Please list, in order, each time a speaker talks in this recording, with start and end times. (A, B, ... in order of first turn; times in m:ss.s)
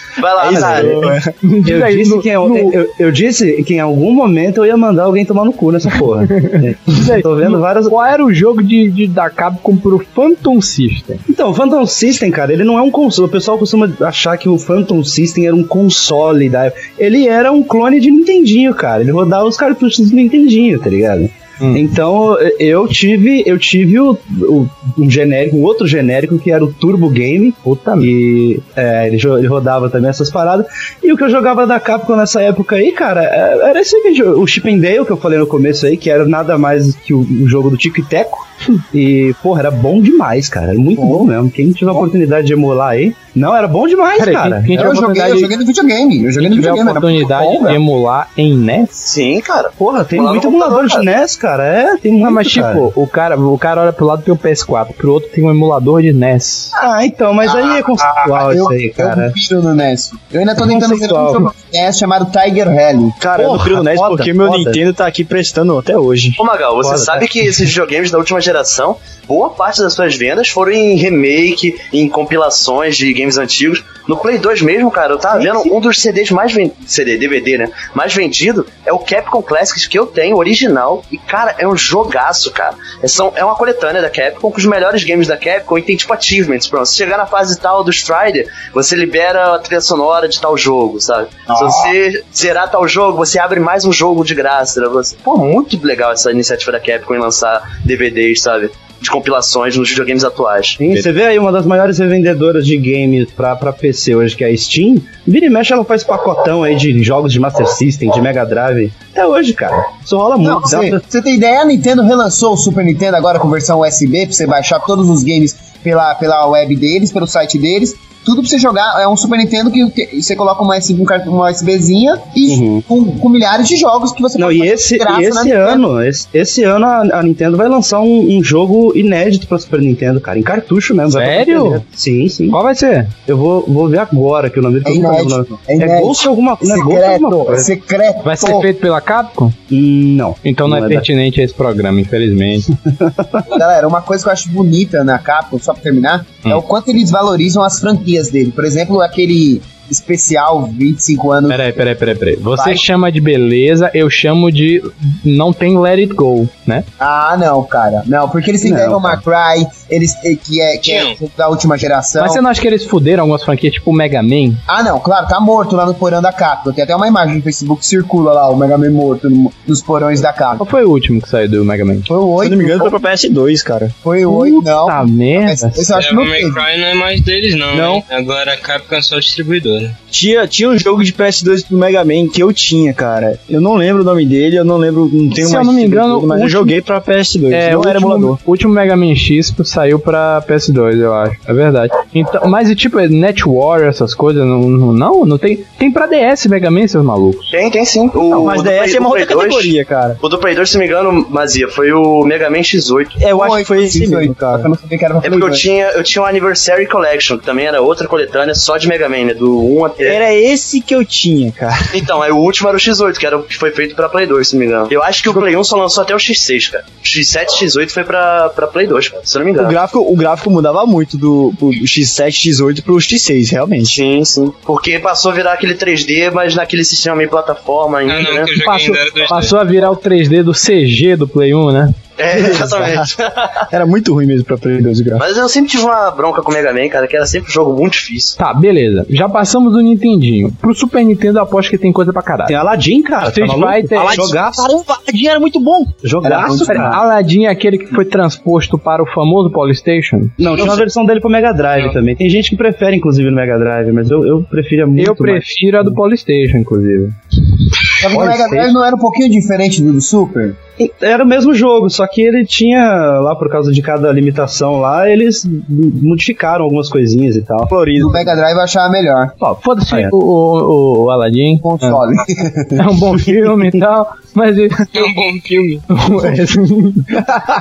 0:00.2-0:01.1 A
0:00.4-0:01.3 B
0:00.5-0:01.1 C
0:01.4-0:02.8 D
0:01.6-0:08.0 C
0:06.3-0:11.2 D
0:11.3-0:44.9 C
0:27.6-0:28.1 D
0:41.0-0:41.2 E
0:44.2-0:45.5 D
0:44.7-0:47.8 E
0:46.4-0:49.1 D
0:49.0-0:51.1 A
0:49.8-0:52.9 C
0:52.2-0:56.7 D
0:56.7-0:59.4 C
0:57.4-1:03.2 E
1:00.6-1:01.5 C
1:03.2-1:06.4 B
1:03.3-1:04.8 C
1:06.4-1:40.8 A
1:06.8-1:07.3 C
1:31.5-1:31.9 E
1:40.8-1:51.0 C
1:50.4-2:05.8 E
2:02.5-2:02.8 C
2:04.4-2:12.6 C
2:11.1-2:11.8 D
2:12.5-2:13.1 D
2:13.3-2:17.7 C
2:14.8-2:18.7 E
2:18.2-2:19.6 D
2:19.7-2:21.1 C
2:20.4-2:22.7 D
2:23.0-2:23.4 C
2:23.5-2:31.6 E
2:31.5-2:36.9 D
2:32.6-2:32.8 E
2:37.0-2:42.4 E
2:38.6-2:39.2 C
2:40.8-2:41.2 F
2:42.2-2:44.6 D
2:44.7-2:50.6 E
2:50.6-2:52.1 D
2:52.1-2:53.0 E
2:52.4-2:53.9 B
2:54.0-2:56.6 E
2:54.3-2:55.9 D
2:56.0-3:00.0 F
2:57.7-2:58.0 B
3:00.1-3:08.4 B
3:05.4-3:06.8 D
3:07.5-3:17.5 D
3:17.5-3:23.2 A
3:18.3-3:20.2 B
3:23.2-3:24.7 B
3:23.3-3:25.7 E
3:25.2-3:30.2 A
3:30.0-3:32.0 B
3:31.9-3:39.8 A
3:39.6-3:44.0 B
3:43.8-3:48.5 A
3:48.1-3:49.6 F
3:48.6-3:52.0 D
3:52.2-3:53.6 A
3:52.3-3:53.1 B
3:53.7-3:55.2 B
3:55.2-3:58.4 A
3:58.4-4:02.6 D
4:02.5-4:04.7 C
4:03.2-4:04.2 D
4:03.9-4:06.6 B
4:06.0-4:07.0 C
4:06.2-4:07.0 E
4:06.6-4:10.8 D
4:10.4-4:16.0 C
4:15.0-4:17.2 D
4:18.0-4:20.6 E
4:18.1-4:18.7 C
4:20.8-4:27.7 C
4:27.7-4:28.3 B
4:28.0-4:29.3 E
4:29.4-4:32.0 D
4:31.6-4:32.9 E
4:32.8-4:34.9 D
4:34.9-4:35.9 F
4:35.9-4:37.4 D